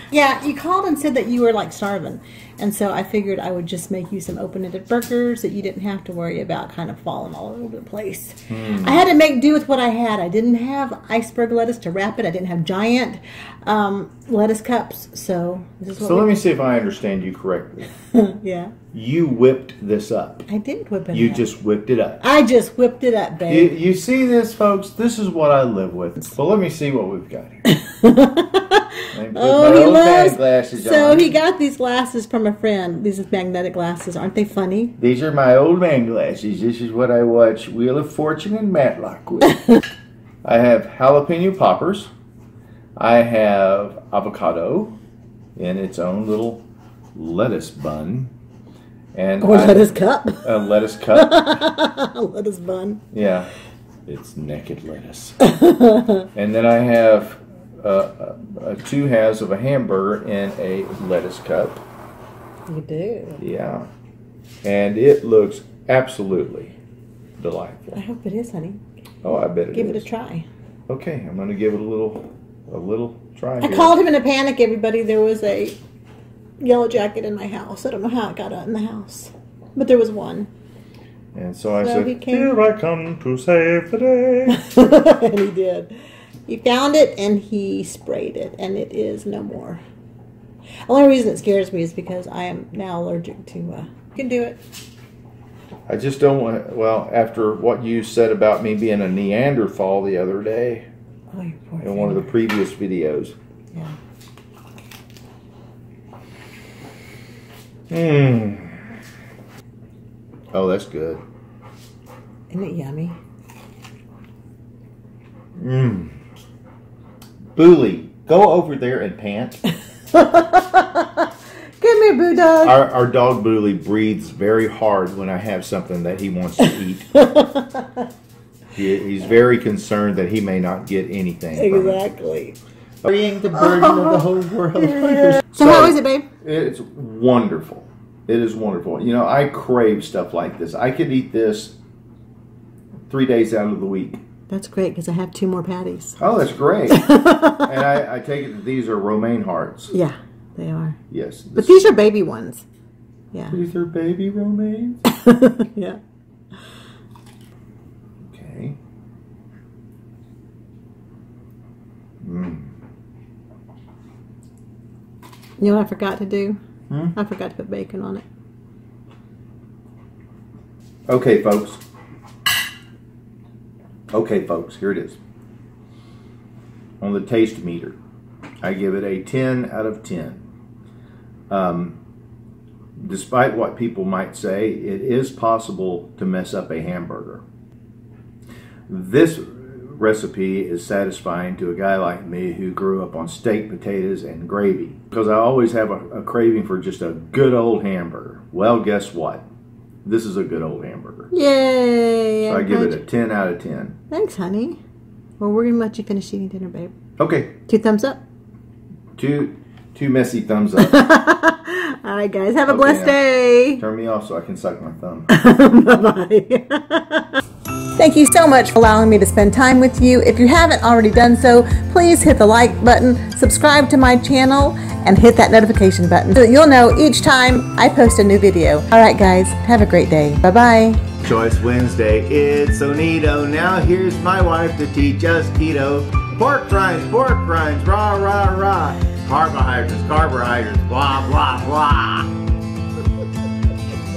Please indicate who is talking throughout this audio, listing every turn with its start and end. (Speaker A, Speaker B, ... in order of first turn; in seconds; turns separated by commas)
Speaker A: 0.1-16.3, Speaker B: 8.5-9.1, Speaker B: 16.0-17.9, Speaker A: 18.0-18.8, Speaker B: 18.9-20.4, Speaker A: 20.5-21.5, Speaker B: 21.1-22.2, Speaker A: 22.2-23.7, Speaker B: 23.5-27.6, Speaker A: 27.7-35.0, Speaker B: 29.1-31.4, Speaker B: 35.0-39.6, Speaker B: 40.4-42.1, Speaker B: 43.0-45.0, Speaker B: 45.6-46.6, Speaker B: 47.1-48.3, Speaker B: 49.1-51.6, Speaker A: 49.4-53.0, Speaker B: 53.1-53.5, Speaker B: 54.1-55.4, Speaker A: 55.4-56.3, Speaker B: 56.4-61.8, Speaker A: 62.7-63.4, Speaker B: 63.4-63.9, Speaker B: 64.6-66.8, Speaker B: 67.4-68.0, Speaker A: 68.0-68.8, Speaker B: 69.2-70.0, Speaker A: 69.7-70.5, Speaker B: 70.9-74.0, Speaker A: 73.6-75.8, Speaker A: 76.6-80.5, Speaker B: 81.3-84.7, Speaker A: 81.8-82.6, Speaker A: 84.5-86.0, Speaker A: 86.5-89.8, Speaker A: 90.9-94.6, Speaker B: 95.9-100.9, Speaker A: 101.3-102.3, Speaker B: 101.8-103.3, Speaker B: 107.9-108.8, Speaker B: 110.5-111.2, Speaker A: 112.5-113.2, Speaker B: 115.6-116.2, Speaker B: 117.6-119.6, Speaker A: 120.1-121.3, Speaker A: 121.8-122.8, Speaker B: 122.6-127.1, Speaker A: 126.6-128.1, Speaker B: 128.8-132.0, Speaker A: 131.6-132.6, Speaker B: 133.0-141.8, Speaker A: 133.5-136.3, Speaker B: 143.1-144.2, Speaker A: 144.5-146.2, Speaker B: 146.2-149.9, Speaker A: 146.9-147.8, Speaker A: 149.9-151.0, Speaker B: 151.1-151.9, Speaker A: 151.6-152.7, Speaker A: 153.3-153.6, Speaker B: 153.5-155.0, Speaker A: 155.1-156.0, Speaker B: 158.3-158.8, Speaker B: 162.2-162.7, Speaker A: 165.6-166.6, Speaker A: 167.1-168.2, Speaker B: 171.1-171.8, Speaker B: 174.1-175.2, Speaker B: 177.0-178.0, Speaker B: 178.6-180.4, Speaker B: 181.5-182.0, Speaker B: 183.0-187.4, Speaker B: 188.9-199.4, Speaker B: 200.1-201.3, Speaker A: 201.3-203.0, Speaker B: 202.5-204.0, Speaker A: 204.1-204.8, Speaker A: 205.4-206.9, Speaker B: 207.2-207.6, Speaker A: 207.7-208.2, Speaker B: 209.2-211.0, Speaker A: 210.8-213.8, Speaker B: 212.7-213.2, Speaker B: 213.8-215.3, Speaker A: 215.3-217.4, Speaker A: 217.9-231.0, Speaker B: 231.2-242.3